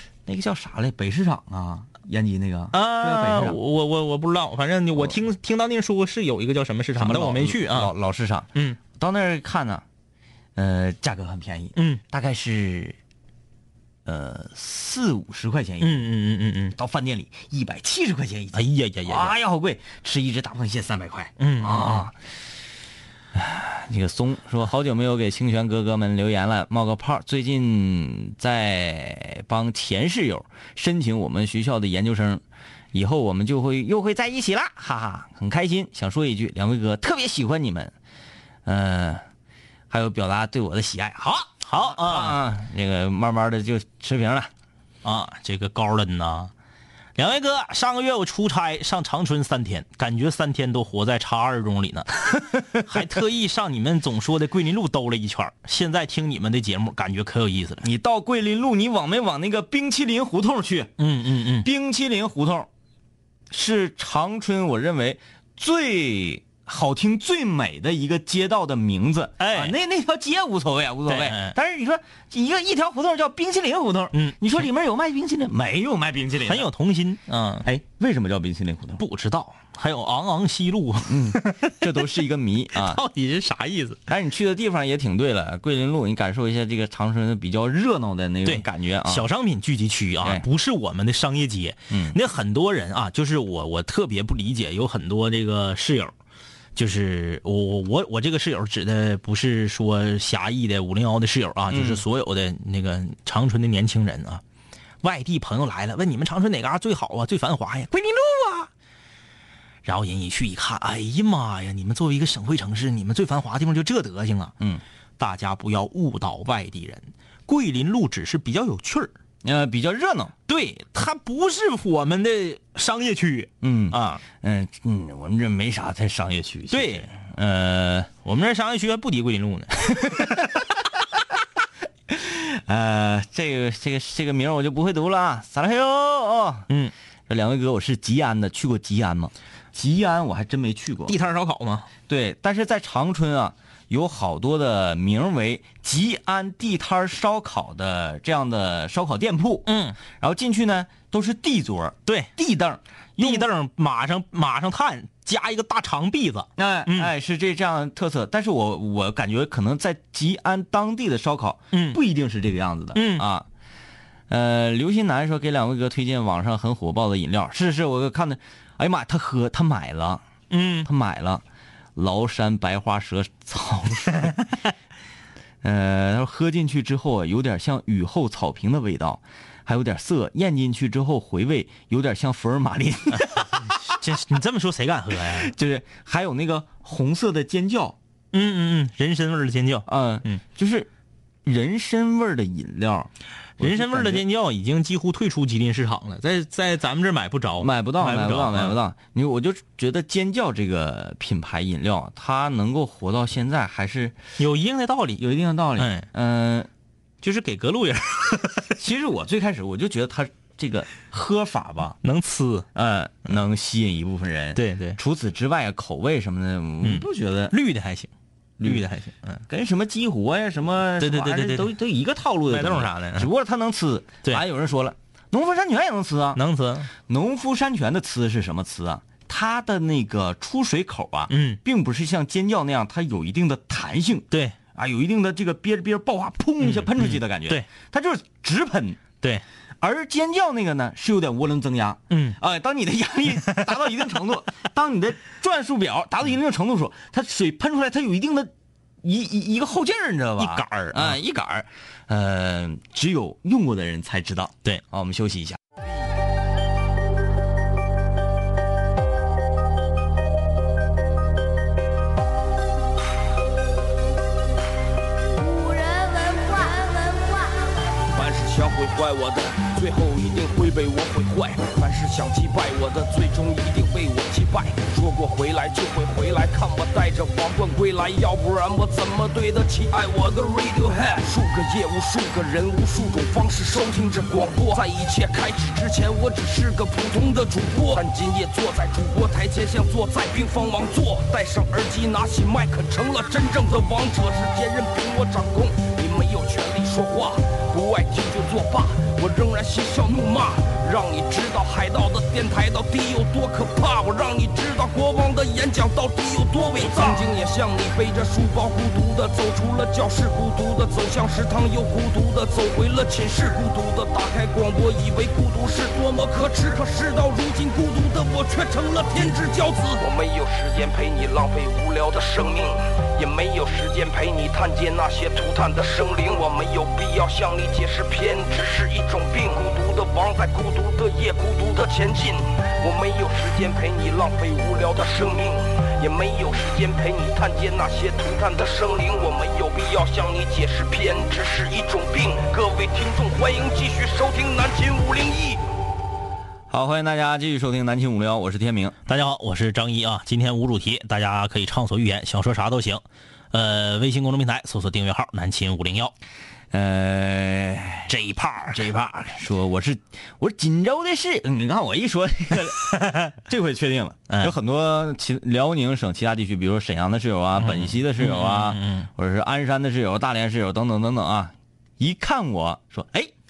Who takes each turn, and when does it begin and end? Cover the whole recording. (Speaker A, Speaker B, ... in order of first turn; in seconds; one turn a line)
Speaker A: 0.2-3.6
Speaker B: 2.7-7.9
Speaker A: 7.0-9.8
Speaker A: 10.6-13.0
Speaker A: 14.0-16.0
Speaker B: 15.8-16.8
Speaker A: 16.7-22.1
Speaker B: 18.5-19.3
Speaker B: 21.4-22.1
Speaker A: 23.3-37.9
Speaker A: 38.6-39.2
Speaker A: 39.9-44.5
Speaker B: 41.6-42.4
Speaker B: 45.0-46.5
Speaker B: 47.2-57.9
Speaker A: 57.8-60.9
Speaker B: 61.0-61.7
Speaker A: 61.6-62.7
Speaker A: 63.5-76.7
Speaker B: 69.4-69.7
Speaker B: 71.1-71.5
Speaker B: 74.1-74.6
Speaker B: 76.4-77.7
Speaker A: 77.6-79.0
Speaker B: 79.0-81.8
Speaker A: 81.1-83.0
Speaker B: 82.7-84.0
Speaker A: 84.1-89.3
Speaker B: 88.4-96.1
Speaker A: 91.9-92.2
Speaker B: 96.8-104.4
Speaker A: 101.7-102.0
Speaker B: 105.0-108.7
Speaker B: 109.8-114.5
Speaker B: 115.2-119.1
Speaker A: 119.4-120.3
Speaker B: 120.5-124.2
Speaker A: 123.6-128.1
Speaker B: 126.7-127.1
Speaker B: 128.2-130.4
Speaker A: 132.1-136.7
Speaker A: 137.3-141.2
Speaker B: 141.1-141.9
Speaker A: 142.1-153.5
Speaker B: 149.7-150.0
Speaker B: 152.1-152.3
Speaker B: 153.2-157.1
Speaker A: 156.6-163.5
Speaker B: 161.7-162.0
Speaker B: 162.9-163.2
Speaker A: 164.3-170.2
Speaker B: 170.5-170.9
Speaker A: 170.8-171.4
Speaker A: 171.9-174.4
Speaker A: 175.6-183.8
Speaker B: 183.6-185.5
Speaker A: 185.2-188.0
Speaker B: 188.3-190.4
Speaker A: 189.9-190.9
Speaker A: 191.4-194.2
Speaker B: 193.6-198.8
Speaker A: 197.6-204.2
Speaker B: 204.4-205.2
Speaker A: 205.2-206.7
Speaker B: 205.8-206.1
Speaker B: 207.2-208.8
Speaker A: 208.8-212.0
Speaker B: 212.0-212.7
Speaker A: 212.7-217.5
Speaker B: 214.5-215.0
Speaker B: 216.8-218.1
Speaker A: 218.6-218.8
Speaker B: 218.6-219.4
Speaker A: 219.5-226.4
Speaker B: 221.0-221.7
Speaker B: 222.5-223.3
Speaker B: 226.3-226.9
Speaker A: 227.0-239.0
Speaker B: 231.3-231.6
Speaker B: 234.3-234.6
Speaker B: 236.6-237.7
Speaker A: 239.8-248.5
Speaker B: 242.1-242.4
Speaker A: 249.0-255.6
Speaker B: 250.4-251.2
Speaker C: 265.3-268.0
Speaker D: 268.1-345.6
Speaker A: 346.7-348.9
Speaker B: 349.1-356.1
Speaker A: 356.7-358.1
Speaker B: 358.1-359.0
Speaker A: 358.7-373.3
Speaker B: 362.9-363.2
Speaker B: 367.6-369.1